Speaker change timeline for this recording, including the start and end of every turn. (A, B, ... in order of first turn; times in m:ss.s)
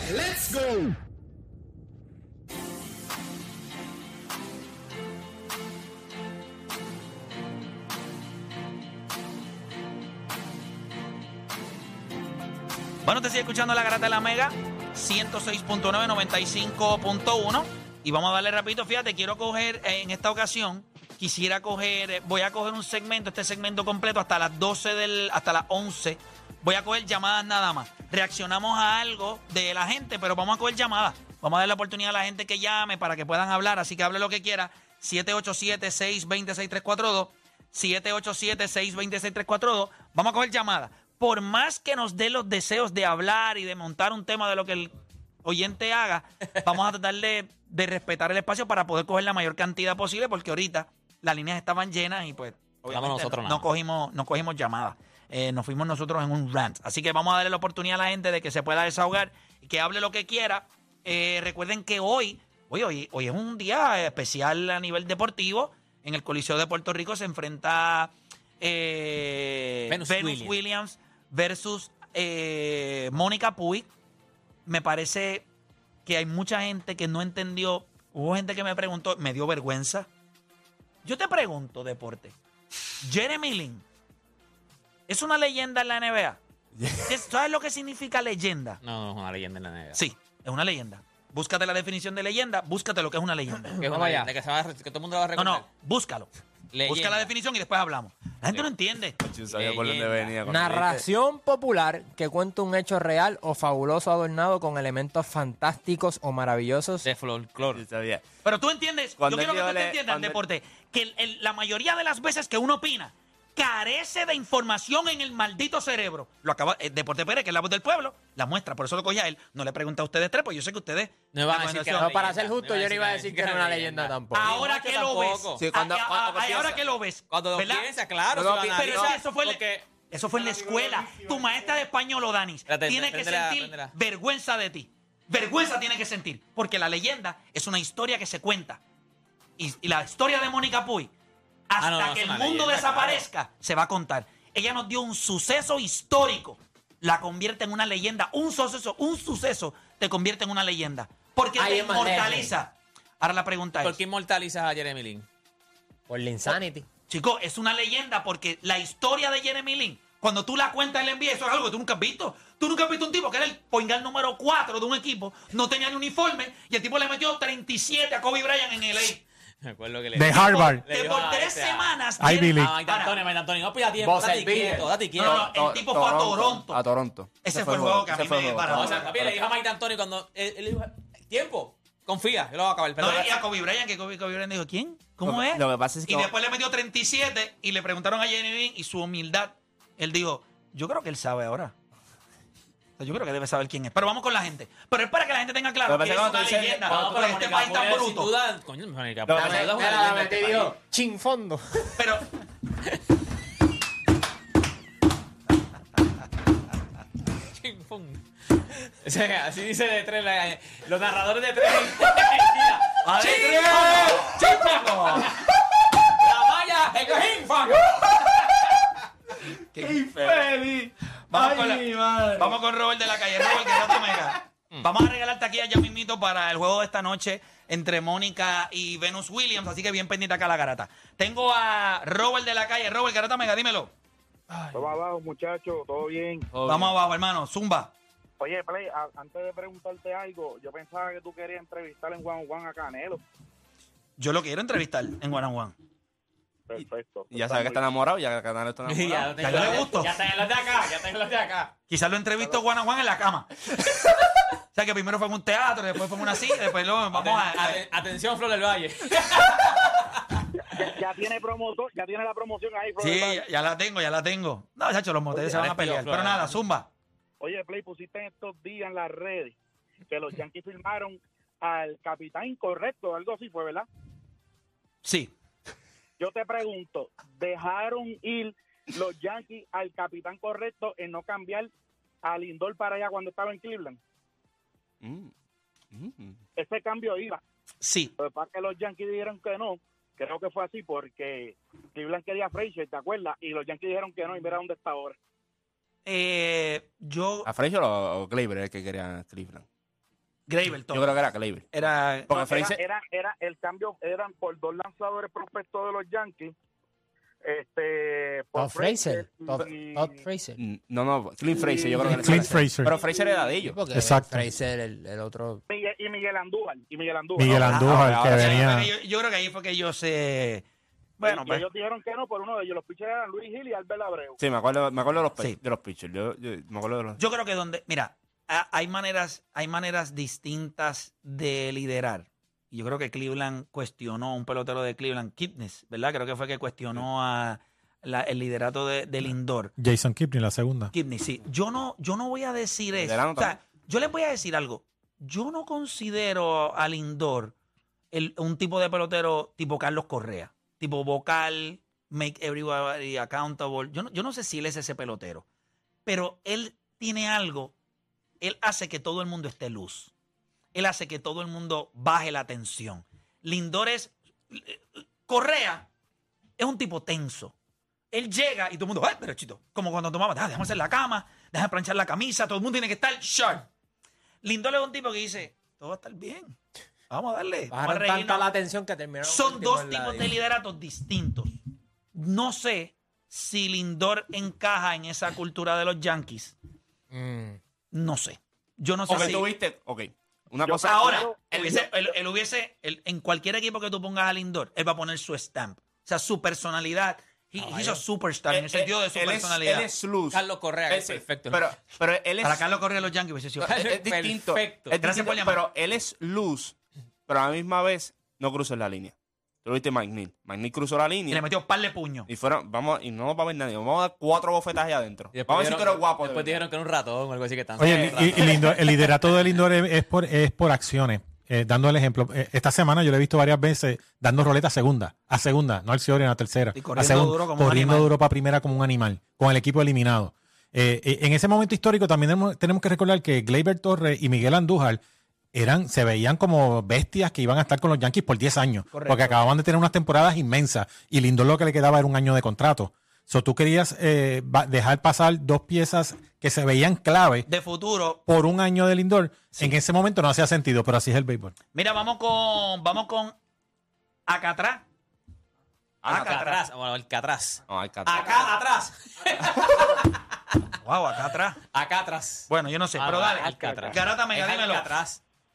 0:13.0-1:13.9 A
0:52.9-0:53.7 B
1:09.9-1:10.6 B
1:14.7-1:15.5 A
1:16.1-1:20.1 A
1:21.0-1:22.4 A
1:23.0-1:23.8 A
1:25.1-1:26.4 A
1:26.8-1:27.1 C
1:27.1-1:28.8 A
1:28.8-1:30.0 B
1:30.0-1:33.8 A
1:33.7-1:34.3 D
1:33.8-1:35.7 B
1:35.4-1:36.3 A
1:36.7-1:37.3 B
1:36.9-1:39.2 A
1:39.2-1:41.0 C
1:39.5-1:40.4 B
1:40.5-1:47.1 D
1:47.0-1:47.8 B
1:47.7-1:48.2 C
1:48.4-2:02.1 A
1:49.2-1:50.4 C
2:01.3-2:05.6 B
2:02.0-2:04.5 D
2:04.3-2:07.9 A
2:05.6-2:06.8 C
2:07.3-2:09.9 B
2:08.3-2:09.2 C
2:08.8-2:18.8 A
2:10.3-2:11.6 C
2:12.7-2:13.9 B
2:19.6-2:21.1 A
2:21.7-2:34.0 A
2:21.8-2:23.2 B
2:31.6-2:32.5 D
2:33.8-2:35.3 B
2:36.1-2:36.9 D
2:37.1-2:49.2 A
2:49.6-2:55.5 B
2:50.2-2:50.8 E
2:50.3-2:53.2 A
2:52.2-2:52.7 E
2:54.0-2:54.9 D
2:55.2-2:56.8 A
2:55.2-2:59.4 C
2:57.4-2:59.1 A
2:58.7-3:03.3 B
3:03.0-3:11.7 A
3:05.2-3:06.3 C
3:13.0-3:18.3 A
3:15.9-3:16.9 C
3:16.9-3:20.8 B
3:19.3-3:19.6 C
3:19.3-3:22.0 D
3:22.0-3:22.3 A
3:27.5-3:33.0 B
3:33.0-3:35.3 A
3:33.2-3:34.2 C
3:36.1-3:38.4 B
3:39.8-3:40.4 A
3:39.8-3:42.6 C
3:41.3-3:53.9 A
3:54.7-3:56.5 F
3:56.5-3:57.0 C
3:56.6-3:57.9 A
3:58.4-4:03.2 F
4:04.2-4:05.8 A
4:06.7-4:07.8 F
4:06.8-4:09.9 C
4:08.9-4:11.7 B
4:09.4-4:10.1 A
4:11.9-4:13.5 A
4:14.7-4:17.8 A
4:17.1-4:20.2 B
4:20.8-4:23.4 F
4:23.0-4:26.9 A
4:25.3-4:26.6 B
4:27.4-4:29.6 F
4:30.1-4:33.9 F
4:35.0-4:35.3 A
4:36.2-4:41.7 F
4:42.2-4:44.0 F
4:45.0-4:45.3 C
4:45.9-4:46.4 C
4:46.6-4:47.4 F
4:47.8-4:48.1 A
4:48.2-4:55.2 F
4:56.0-4:57.5 A
4:57.4-4:59.6 C
5:00.5-5:01.2 A
5:00.9-5:01.7 C
5:01.7-5:02.7 A
5:02.3-5:02.8 C
5:02.3-5:06.5 F
5:07.4-5:10.1 F
5:08.6-5:10.6 D
5:10.6-5:13.8 C
5:11.6-5:12.4 F
5:12.1-5:13.0 E
5:13.6-5:15.6 D
5:13.9-5:14.5 E
5:15.7-5:17.7 F
5:17.4-5:18.9 E
5:17.7-5:20.6 A
5:17.7-5:18.7 C
5:21.2-5:21.6 A
5:21.2-5:24.4 F
5:24.4-5:27.2 C
5:27.2-5:39.7 A
5:39.8-5:40.9 E
5:40.9-5:47.6 A
5:42.9-5:43.6 C
5:48.1-5:55.4 A
5:56.1-5:57.8 A
5:58.4-6:00.1 A
6:00.7-6:05.9 A
6:06.6-6:07.5 A
6:08.1-6:13.7 A
6:14.4-6:16.6 A
6:17.1-6:18.5 A
6:17.7-6:20.3 D
6:19.2-6:21.6 A
6:22.1-6:26.6 A
6:27.1-6:27.6 D
6:27.9-6:29.5 A
6:29.1-6:31.9 C
6:30.7-6:31.3 F
6:30.7-6:39.9 A
6:38.5-6:42.7 C
6:40.3-6:41.7 B
6:42.4-6:43.8 A
6:43.6-6:46.8 C
6:43.6-6:45.0 B
6:45.0-6:45.6 A
6:47.3-6:51.4 C
6:51.3-6:52.3 A
6:52.3-6:56.6 C
6:55.3-6:58.9 B
6:57.8-7:15.0 E
6:57.8-6:58.6 C
7:06.8-7:08.1 A
7:15.5-7:27.5 E
7:18.9-7:19.4 A
7:27.5-7:28.2 A
7:28.3-7:31.6 E
7:31.7-7:33.4 A
7:34.3-7:34.8 A
7:36.0-7:36.4 C
7:36.1-7:36.6 A
7:36.1-7:40.2 B
7:37.7-7:38.5 C
7:40.8-7:41.6 A
7:41.7-7:45.2 B
7:42.5-7:44.9 A